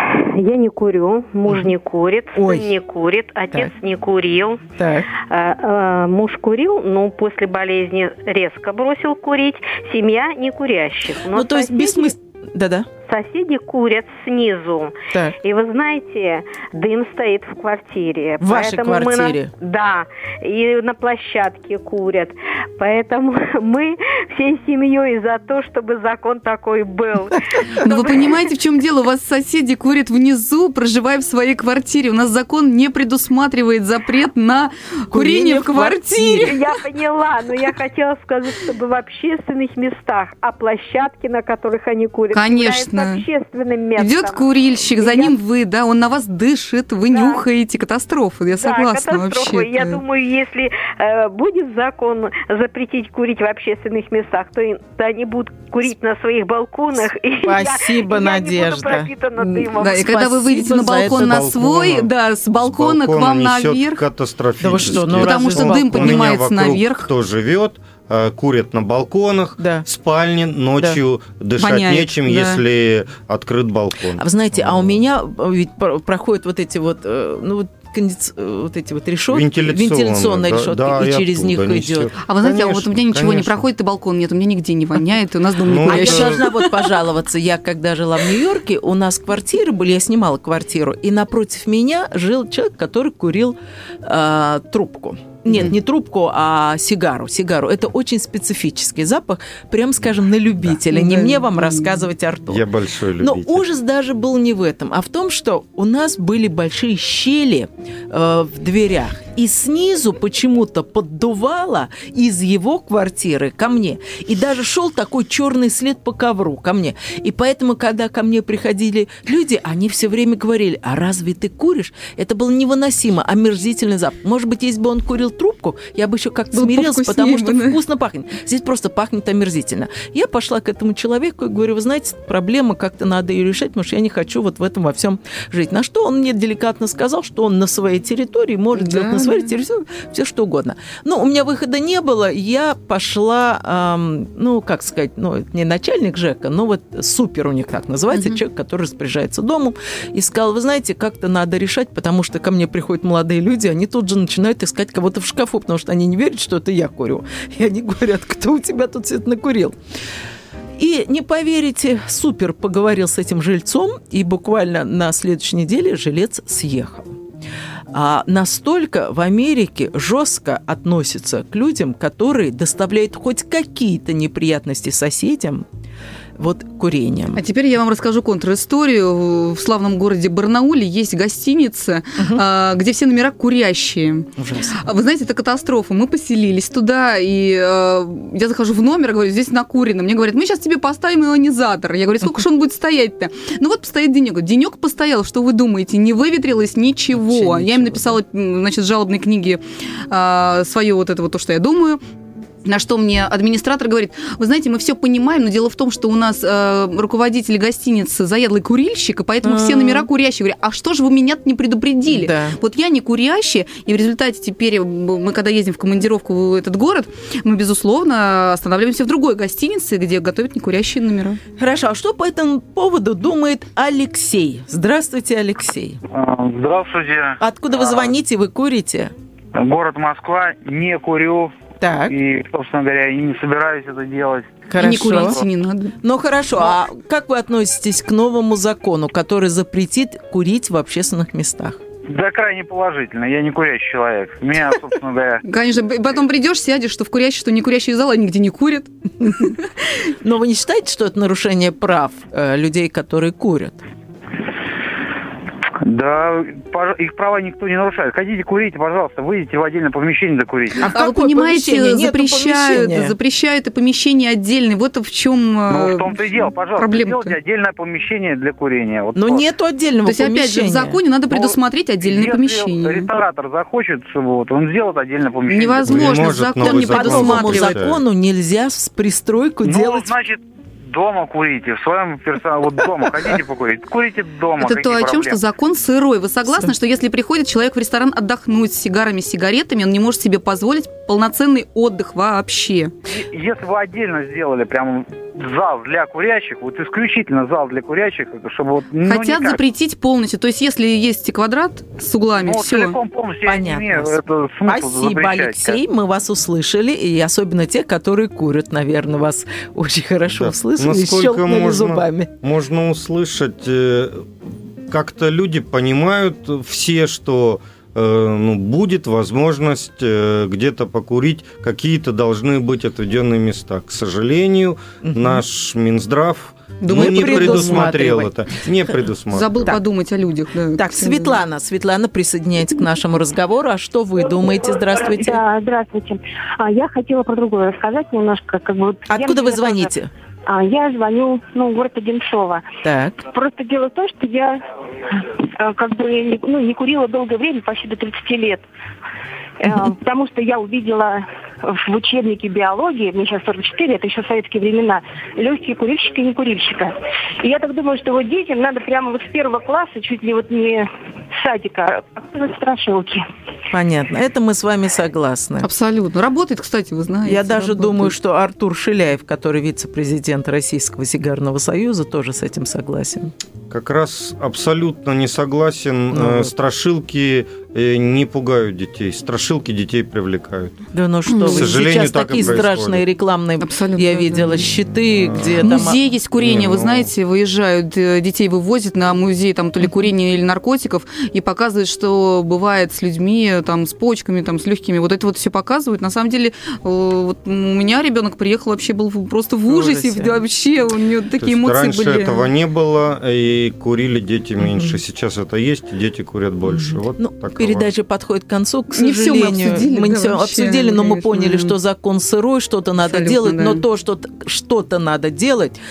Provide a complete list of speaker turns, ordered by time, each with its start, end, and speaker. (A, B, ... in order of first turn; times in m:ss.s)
0:00.3-0:04.6 A
0:01.5-0:01.7 B
0:02.3-0:02.7 B
0:04.8-0:05.1 B
0:05.2-0:12.1 A
0:11.3-0:12.9 B
0:13.0-0:27.4 A
0:18.4-0:19.5 B
0:27.6-0:27.9 B
0:27.8-0:36.6 C
0:27.9-0:28.3 A
0:35.1-0:36.5 B
0:36.4-0:45.3 A
0:42.3-0:43.2 C
0:44.0-0:50.0 C
0:47.1-0:47.4 A
0:48.5-1:00.4 A
0:57.4-0:59.1 B
0:59.4-1:04.0 C
1:00.1-1:01.4 B
1:01.0-1:15.0 D
1:04.6-1:06.3 B
1:04.8-1:07.1 C
1:09.6-1:09.8 B
1:11.6-1:12.6 C
1:14.2-1:22.1 B
1:19.3-1:23.6 D
1:22.2-1:26.7 C
1:25.6-1:26.5 D
1:25.8-1:42.6 B
1:40.9-1:42.1 C
1:42.5-1:43.7 D
1:43.2-2:39.7 B
2:06.5-2:07.8 C
2:18.8-2:19.5 C
2:28.1-2:28.4 C
2:40.8-2:47.2 B
2:47.9-2:55.6 B
2:56.4-2:57.4 B
2:57.3-3:04.3 C
3:04.4-3:04.8 B
3:04.8-3:22.0 C
3:17.1-3:18.2 B
3:22.6-3:41.4 C
3:29.4-3:30.1 B
3:32.1-3:32.6 B
3:41.6-3:46.0 B
3:46.1-3:48.1 E
3:47.4-3:49.1 B
3:49.5-3:51.5 E
3:51.8-3:52.1 B
3:52.1-3:55.4 E
3:54.7-3:55.4 B
3:54.8-3:56.0 C
3:56.0-4:01.8 B
4:02.1-4:05.4 E
4:05.4-4:09.6 C
4:09.2-4:09.5 B
4:10.2-4:13.8 B
4:15.8-4:20.9 E
4:20.8-4:23.1 B
4:20.8-4:26.1 C
4:25.7-4:29.4 E
4:26.8-4:27.3 C
4:29.1-4:31.0 B
4:30.0-4:33.1 C
4:31.3-4:36.3 E
4:35.5-4:37.8 C
4:35.8-4:38.0 D
4:36.6-4:40.1 B
4:39.6-4:45.4 E
4:44.6-4:52.9 C
4:53.1-4:59.6 E
4:59.0-5:03.0 C
5:02.4-5:05.8 E
5:03.4-5:12.3 B
5:10.3-5:14.3 D
5:14.9-5:29.7 D
5:25.0-5:25.4 B
5:26.8-5:28.0 C
5:26.9-5:28.3 B
5:29.3-5:31.4 C
5:30.8-5:35.4 B
5:35.1-5:39.9 F
5:39.1-5:40.1 B
5:40.5-5:42.6 F
5:42.8-5:43.3 B
5:43.3-5:44.6 F
5:45.4-5:48.6 F
5:49.6-6:03.2 F
6:03.7-6:05.7 B
6:05.6-6:08.1 C
6:07.2-6:13.3 B
6:13.7-6:20.8 D
6:16.1-6:16.5 B
6:20.9-6:26.0 B
6:21.3-6:21.8 C
6:21.5-6:23.0 D
6:23.6-6:24.7 C
6:25.0-6:27.1 D
6:25.5-6:42.5 C
6:39.7-6:40.4 B
6:41.4-6:47.9 D
6:44.6-6:45.0 B
6:46.7-6:55.8 B
6:48.9-6:51.7 C
6:53.1-6:53.8 C